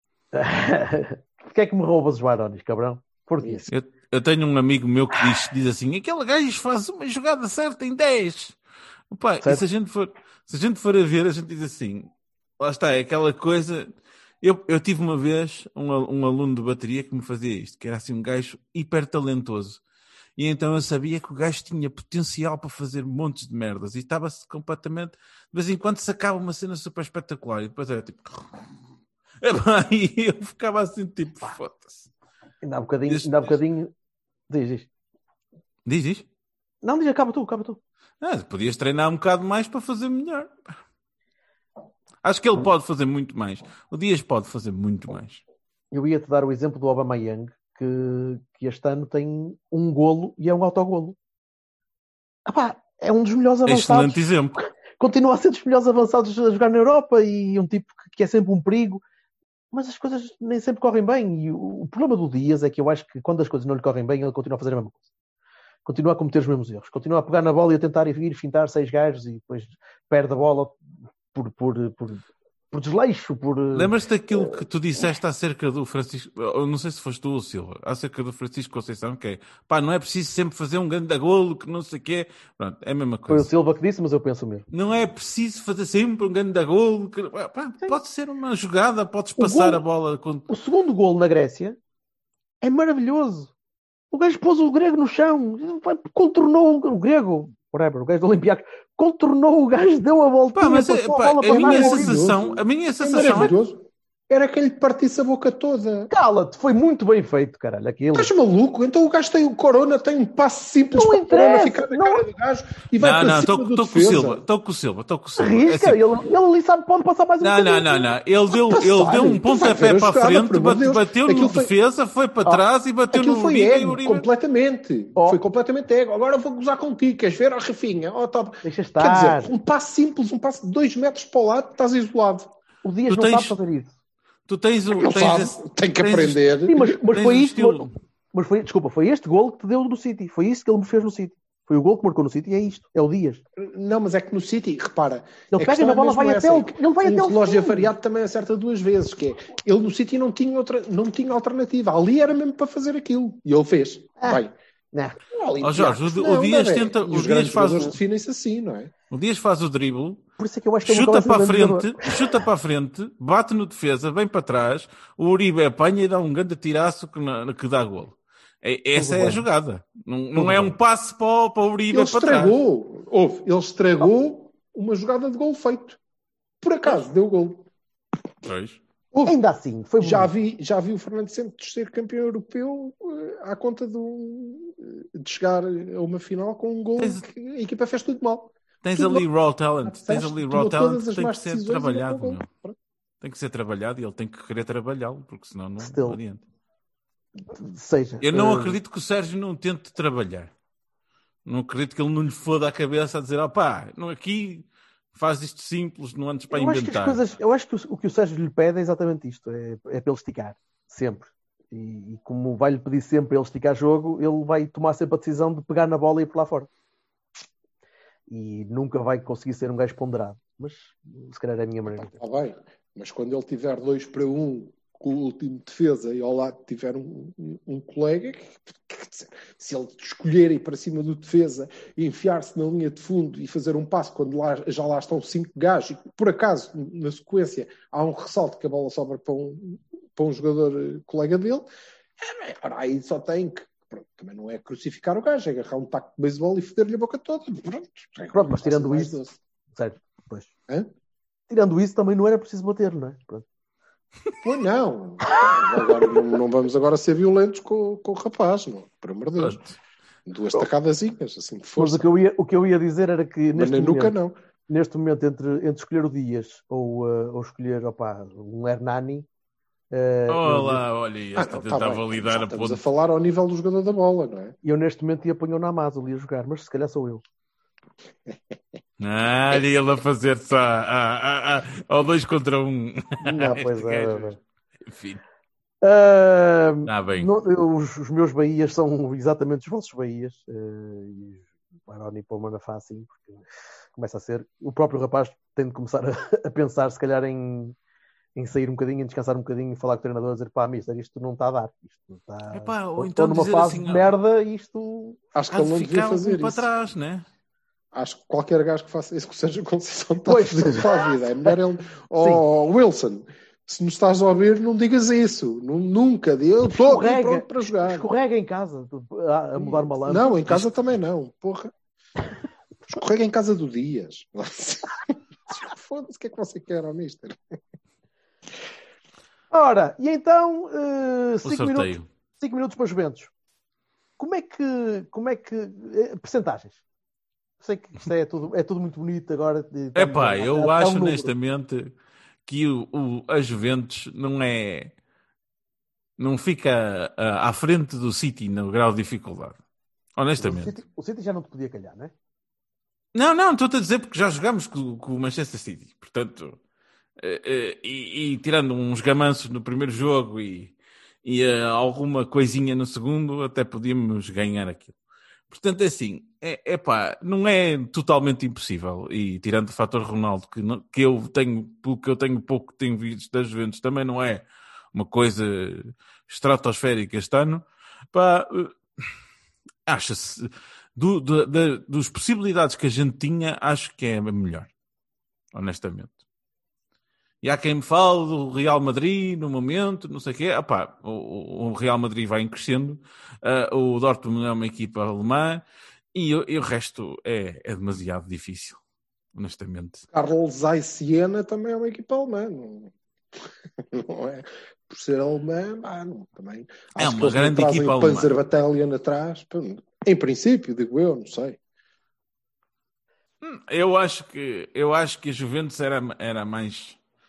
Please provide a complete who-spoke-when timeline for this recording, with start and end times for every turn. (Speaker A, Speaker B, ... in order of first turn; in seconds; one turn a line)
Speaker A: 0.3-3.7
Speaker B: 3.7-8.6
Speaker B: 9.1-19.8
Speaker B: 20.4-28.7
Speaker B: 29.4-32.1
Speaker A: 32.6-33.9
Speaker B: 33.1-33.5
Speaker A: 34.5-34.9
Speaker B: 35.9-36.3
Speaker A: 36.8-37.8
Speaker B: 38.2-40.5
Speaker B: 42.2-45.4
Speaker A: 45.9-51.2
Speaker A: 52.5-54.2
Speaker B: 53.7-54.6
Speaker A: 55.0-59.0
Speaker A: 59.7-65.0
Speaker A: 65.9-70.8
Speaker A: 71.3-73.9
Speaker B: 73.7-83.5
Speaker A: 83.3-84.7
Speaker B: 84.7-90.5
Speaker A: 89.4-89.8
Speaker A: 90.5-91.8
Speaker A: 92.6-93.5
Speaker A: 94.1-102.1
Speaker B: 100.5-103.5
Speaker C: 101.5-106.1
Speaker A: 106.1-108.3
Speaker C: 108.1-114.4
Speaker A: 110.9-112.2
Speaker B: 113.0-116.0
Speaker A: 115.4-118.1
Speaker B: 117.4-124.3
Speaker C: 118.5-121.7
Speaker C: 123.1-132.5
Speaker A: 128.6-129.5
Speaker A: 132.8-133.9
Speaker B: 133.1-133.6
Speaker B: 134.5-136.5
Speaker C: 135.0-137.0
Speaker A: 136.7-143.4
Speaker B: 137.1-137.9
Speaker C: 143.6-154.5
Speaker A: 145.5-147.9
Speaker A: 154.2-155.2
Speaker C: 155.3-158.9
Speaker B: 155.6-157.9
Speaker B: 159.1-160.2
Speaker A: 160.4-162.1
Speaker B: 160.9-172.6
Speaker A: 169.0-169.4
Speaker A: 170.4-170.7
Speaker C: 171.9-176.0
Speaker C: 176.6-177.7
Speaker B: 178.4-178.8
Speaker A: 179.2-180.3
Speaker C: 180.0-189.3
Speaker B: 188.8-192.5
Speaker C: 189.8-192.8
Speaker B: 193.2-196.4
Speaker A: 195.8-196.2
Speaker A: 197.4-198.8
Speaker B: 198.2-200.5
Speaker B: 201.5-207.2
Speaker A: 206.5-216.7
Speaker A: 218.3-222.2
Speaker C: 221.9-241.7
Speaker C: 242.2-249.4
Speaker A: 248.3-249.2
Speaker A: 249.7-250.5
Speaker A: 251.5-253.4
Speaker C: 254.4-259.6
Speaker A: 255.3-256.1
Speaker B: 259.4-259.8
Speaker C: 260.3-262.1
Speaker A: 261.8-264.2
Speaker C: 263.5-264.4
Speaker A: 264.7-269.3
Speaker A: 269.9-270.8
Speaker B: 270.3-272.8
Speaker C: 271.4-274.6
Speaker A: 274.6-277.2
Speaker B: 279.0-284.3
Speaker C: 283.3-283.6
Speaker A: 283.3-284.4
Speaker B: 284.9-285.2
Speaker A: 285.8-293.4
Speaker B: 286.9-287.3
Speaker A: 294.0-297.8
Speaker A: 298.4-305.2
Speaker B: 302.5-304.1
Speaker C: 305.3-306.7
Speaker B: 305.5-307.2
Speaker C: 307.9-318.1
Speaker A: 310.3-311.6
Speaker A: 316.7-320.6
Speaker C: 319.6-321.7
Speaker C: 322.9-327.6
Speaker A: 329.5-333.3
Speaker B: 331.4-332.1
Speaker A: 334.2-336.8
Speaker A: 337.6-341.3
Speaker B: 339.9-341.9
Speaker B: 342.5-344.9
Speaker B: 346.2-349.6
Speaker B: 350.2-350.8
Speaker A: 350.4-352.1
Speaker B: 353.1-356.6
Speaker B: 357.2-360.7
Speaker B: 361.2-364.9
Speaker B: 365.5-378.8
Speaker B: 379.9-384.7
Speaker B: 385.5-386.2
Speaker B: 387.4-398.8
Speaker B: 399.4-400.1
Speaker C: 400.1-402.9
Speaker C: 403.8-411.6
Speaker B: 407.0-408.3
Speaker B: 413.4-417.0